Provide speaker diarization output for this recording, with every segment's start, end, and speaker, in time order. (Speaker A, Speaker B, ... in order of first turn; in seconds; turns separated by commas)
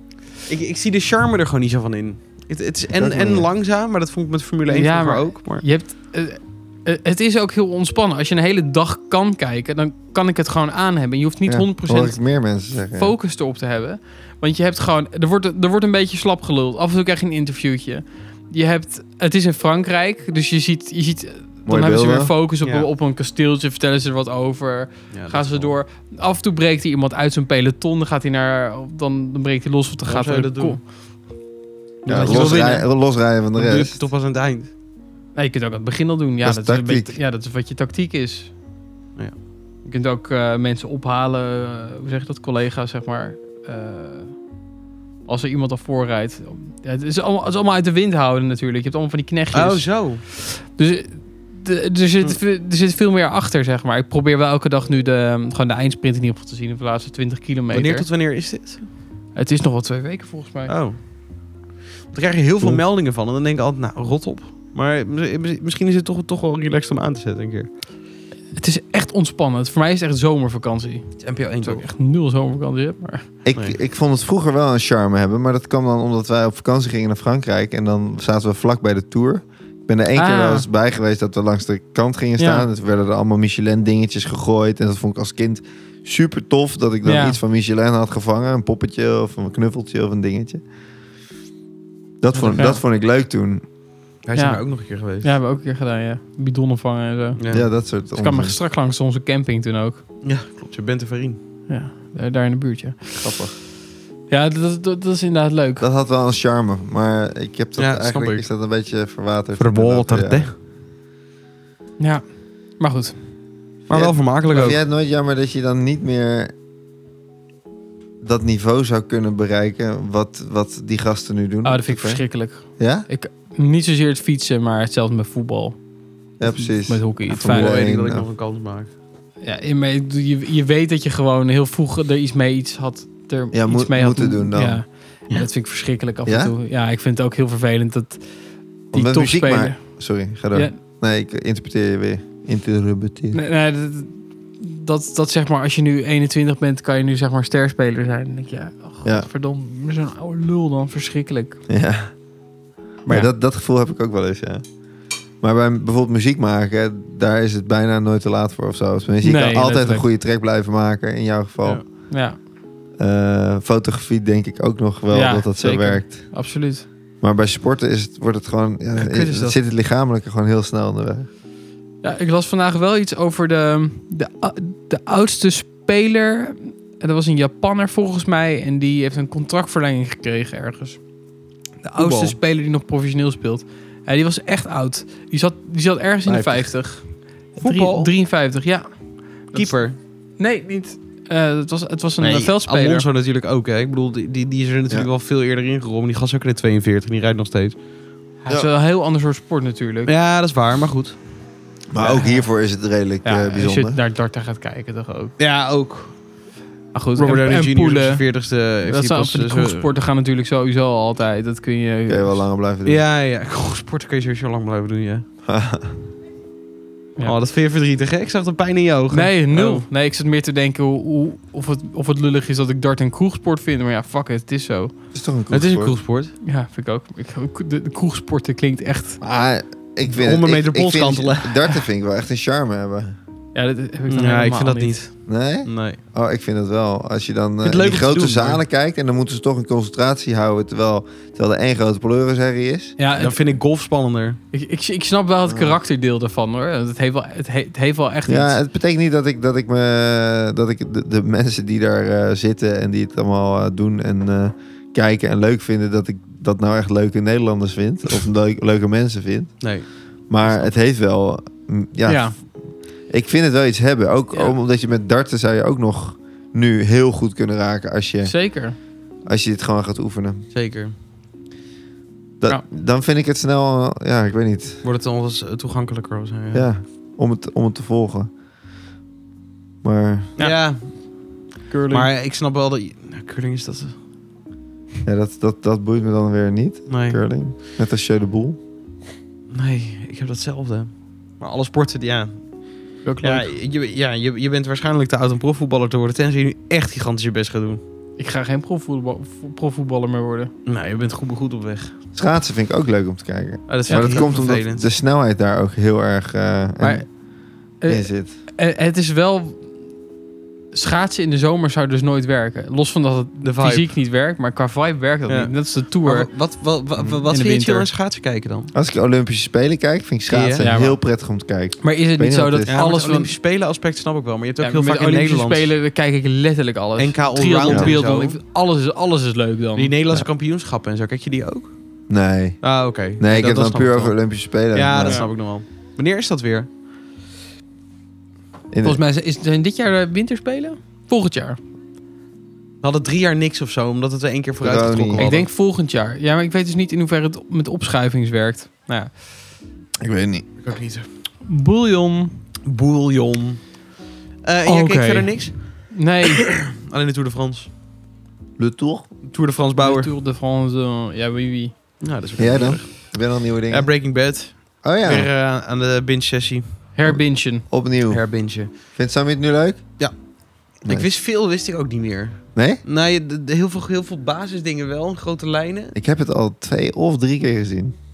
Speaker A: 0.5-5.6, Speaker B: 3.0-3.5, Speaker C: 4.7-12.2, Speaker B: 11.5-13.2, Speaker C: 12.9-30.9, Speaker B: 21.7-22.3, Speaker A: 22.6-22.9, Speaker A: 25.1-25.8, Speaker A: 30.1-30.8, Speaker C: 32.0-32.9, Speaker B: 32.1-34.0, Speaker A: 32.2-32.9, Speaker A: 33.5-34.7, Speaker C: 35.4-38.5, Speaker B: 36.4-37.2, Speaker C: 39.9-44.4, Speaker C: 45.3-58.1, Speaker A: 49.5-50.2, Speaker A: 57.7-58.8, Speaker C: 59.4-60.7, Speaker A: 60.7-61.0, Speaker A: 62.1-67.7, Speaker C: 68.5-73.3, Speaker A: 71.2-71.9, Speaker B: 73.4-90.6, Speaker C: 80.2-80.7, Speaker C: 82.4-82.7, Speaker C: 87.0-87.4, Speaker B: 92.2-93.6, Speaker A: 92.3-92.7, Speaker C: 92.5-92.8, Speaker A: 94.2-95.3, Speaker C: 94.4-97.4, Speaker A: 97.4-97.7, Speaker B: 97.5-98.6, Speaker C: 98.1-100.0, Speaker A: 100.2-101.4, Speaker C: 101.7-103.5, Speaker B: 103.2-103.5, Speaker C: 104.3-105.9, Speaker B: 105.8-110.5, Speaker A: 107.8-108.5, Speaker A: 109.6-110.5, Speaker C: 112.0-113.2, Speaker B: 113.9-116.5, Speaker A: 113.9-114.8, Speaker B: 118.2-122.2, Speaker C: 121.6-125.8, Speaker B: 122.8-123.1, Speaker C: 126.4-127.8, Speaker B: 126.4-128.2, Speaker A: 127.5-128.9, Speaker C: 129.4-138.4, Speaker B: 133.5-134.8, Speaker B: 136.2-136.5, Speaker C: 138.9-140.8, Speaker B: 138.9-143.4, Speaker C: 143.3-151.6, Speaker B: 151.7-152.1, Speaker B: 153.1-154.7, Speaker B: 155.4-161.9, Speaker C: 159.2-160.1, Speaker C: 162.1-162.4, Speaker B: 163.0-166.3, Speaker C: 165.1-166.9, Speaker B: 167.2-171.3, Speaker A: 169.0-169.6, Speaker C: 172.0-181.0, Speaker C: 181.8-189.8, Speaker A: 182.0-182.4, Speaker B: 186.3-186.7, Speaker A: 187.6-188.1, Speaker A: 189.5-190.0, Speaker C: 190.4-193.1, Speaker A: 192.2-197.8, Speaker C: 198.4-200.1, Speaker A: 200.1-201.2, Speaker B: 201.9-204.0, Speaker C: 202.0-202.5, Speaker C: 203.2-205.4, Speaker A: 205.4-206.2, Speaker C: 206.9-208.2, Speaker A: 207.2-209.9, Speaker C: 208.8-212.4, Speaker B: 212.1-213.0, Speaker A: 212.8-215.3, Speaker B: 215.4-215.9, Speaker A: 217.2-219.8, Speaker C: 219.1-225.0, Speaker B: 225.1-226.0, Speaker A: 225.5-226.3, Speaker C: 226.4-229.2, Speaker B: 229.2-233.2, Speaker A: 230.1-231.8, Speaker C: 233.6-235.1, Speaker A: 234.1-236.0, Speaker B: 235.3-243.0, Speaker A: 237.6-238.6, Speaker C: 243.0-243.4, Speaker A: 243.2-244.4, Speaker C: 244.5-248.6, Speaker B: 245.5-245.8, Speaker B: 248.3-259.7, Speaker A: 259.6-260.7, Speaker B: 260.3-262.5, Speaker C: 262.1-262.4, Speaker B: 263.1-268.4, Speaker C: 268.2-268.8, Speaker B: 269.2-270.5, Speaker A: 270.5-270.9, Speaker B: 272.4-274.8, Speaker A: 274.8-276.7, Speaker B: 276.5-278.3, Speaker B: 279.8-280.3, Speaker C: 280.4-280.6, Speaker A: 280.4-281.1, Speaker C: 281.7-282.1, Speaker A: 281.9-284.0, Speaker B: 285.1-288.6, Speaker A: 286.9-287.2, Speaker A: 289.5-292.4, Speaker C: 293.0-293.5, Speaker A: 293.2-297.8, Speaker C: 298.2-300.5, Speaker A: 300.7-301.9, Speaker B: 302.1-307.1, Speaker A: 303.7-304.9, Speaker C: 303.9-304.3, Speaker C: 306.8-307.1, Speaker C: 307.8-309.7, Speaker B: 307.9-308.3, Speaker C: 310.7-316.3, Speaker A: 313.4-313.9, Speaker A: 315.3-318.7, Speaker C: 317.3-317.9, Speaker B: 318.7-322.7, Speaker A: 320.3-320.7, Speaker C: 320.6-321.0, Speaker C: 321.8-323.3, Speaker A: 322.7-325.7, Speaker C: 324.6-329.9, Speaker A: 327.0-328.4, Speaker B: 327.7-328.0, Speaker A: 329.8-331.8, Speaker B: 332.1-335.2, Speaker A: 332.6-334.2, Speaker A: 334.7-336.7, Speaker B: 338.7-339.0, Speaker C: 338.8-341.6, Speaker A: 342.8-345.5, Speaker B: 344.6-345.3, Speaker C: 345.2-349.2, Speaker B: 350.0-350.5, Speaker A: 350.6-351.1, Speaker C: 351.4-352.3, Speaker A: 352.6-353.8, Speaker A: 354.4-357.7, Speaker C: 354.7-356.6, Speaker B: 358.6-359.1, Speaker A: 359.2-360.1, Speaker C: 359.8-362.0, Speaker A: 362.0-366.8, Speaker B: 362.4-363.9, Speaker B: 364.8-365.3, Speaker C: 366.9-367.7, Speaker B: 367.1-368.2, Speaker A: 368.1-368.7, Speaker B: 368.9-369.8, Speaker B: 370.9-371.1, Speaker A: 370.9-376.0, Speaker B: 372.6-372.8, Speaker B: 375.9-377.9